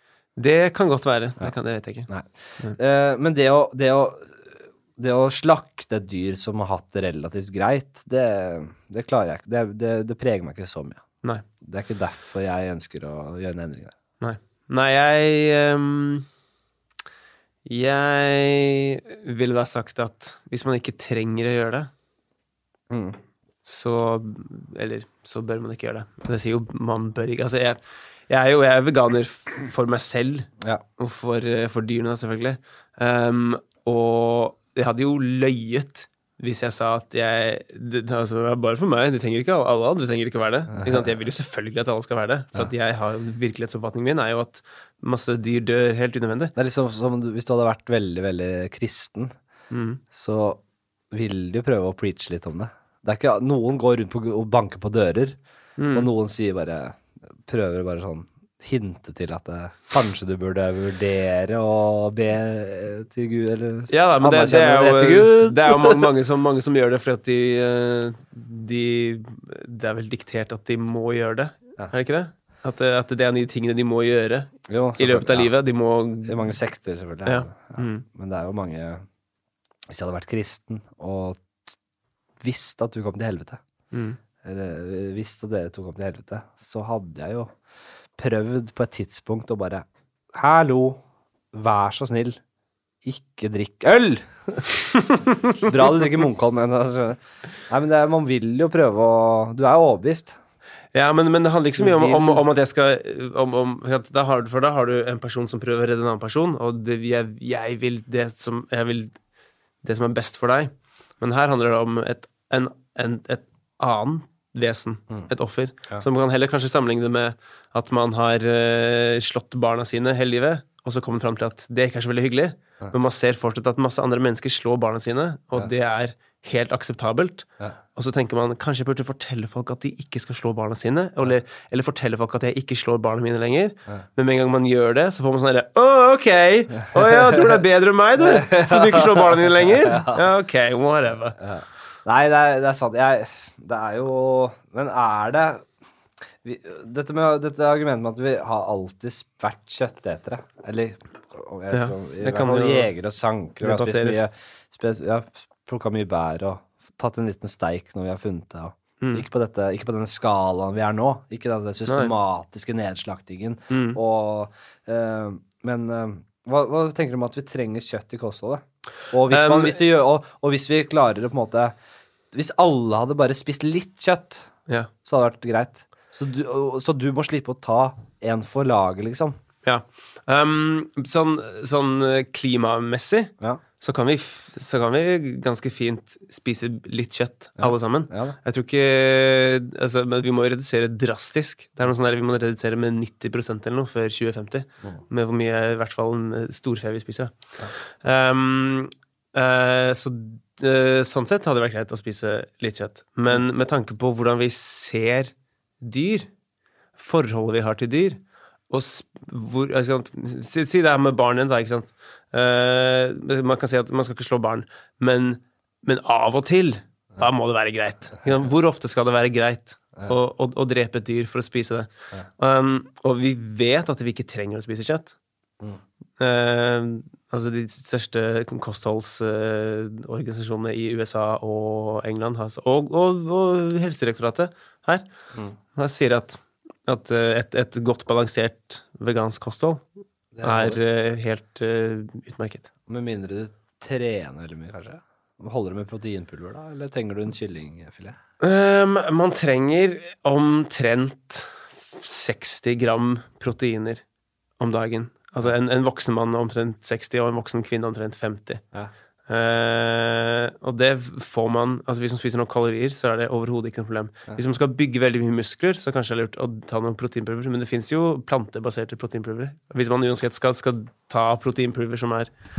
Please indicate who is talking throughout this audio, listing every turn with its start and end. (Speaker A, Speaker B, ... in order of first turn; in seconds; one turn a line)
Speaker A: 0.4-2.1
Speaker B: 2.1-11.0
Speaker B: 11.6-13.9
Speaker A: 14.2-16.3
Speaker A: 17.6-21.9
Speaker B: 22.9-23.2
Speaker A: 23.6-46.5
Speaker B: 40.7-41.1
Speaker B: 46.5-49.3
Speaker A: 49.7-50.0
Speaker B: 50.1-50.6
Speaker B: 51.1-55.4
Speaker A: 55.8-56.1
Speaker B: 55.9-66.0
Speaker A: 63.9-76.5
Speaker B: 74.7-75.5
Speaker B: 76.2-79.0
Speaker A: 77.2-78.0
Speaker B: 79.9-81.8
Speaker B: 82.4-83.6
Speaker A: 83.9-84.2
Speaker B: 84.4-87.5
Speaker B: 88.2-91.0
Speaker B: 91.5-92.4
Speaker B: 93.0-94.7
Speaker B: 95.6-100.4
Speaker A: 100.9-109.2
Speaker B: 101.8-102.4
Speaker A: 109.8-141.3
Speaker B: 138.2-140.2
Speaker B: 141.4-145.6
Speaker B: 146.4-171.7
Speaker A: 151.7-152.9
Speaker A: 153.6-154.2
Speaker A: 163.7-164.0
Speaker A: 169.3-169.8
Speaker B: 172.3-174.4
Speaker B: 175.0-179.4
Speaker A: 179.6-197.3
Speaker B: 187.6-188.3
Speaker A: 198.0-206.3
Speaker A: 207.0-225.1
Speaker A: 226.2-235.1
Speaker A: 235.8-239.8
Speaker B: 240.3-240.8
Speaker A: 240.4-242.7
Speaker B: 242.9-248.2
Speaker A: 248.4-254.0
Speaker A: 254.6-258.6
Speaker A: 259.3-272.3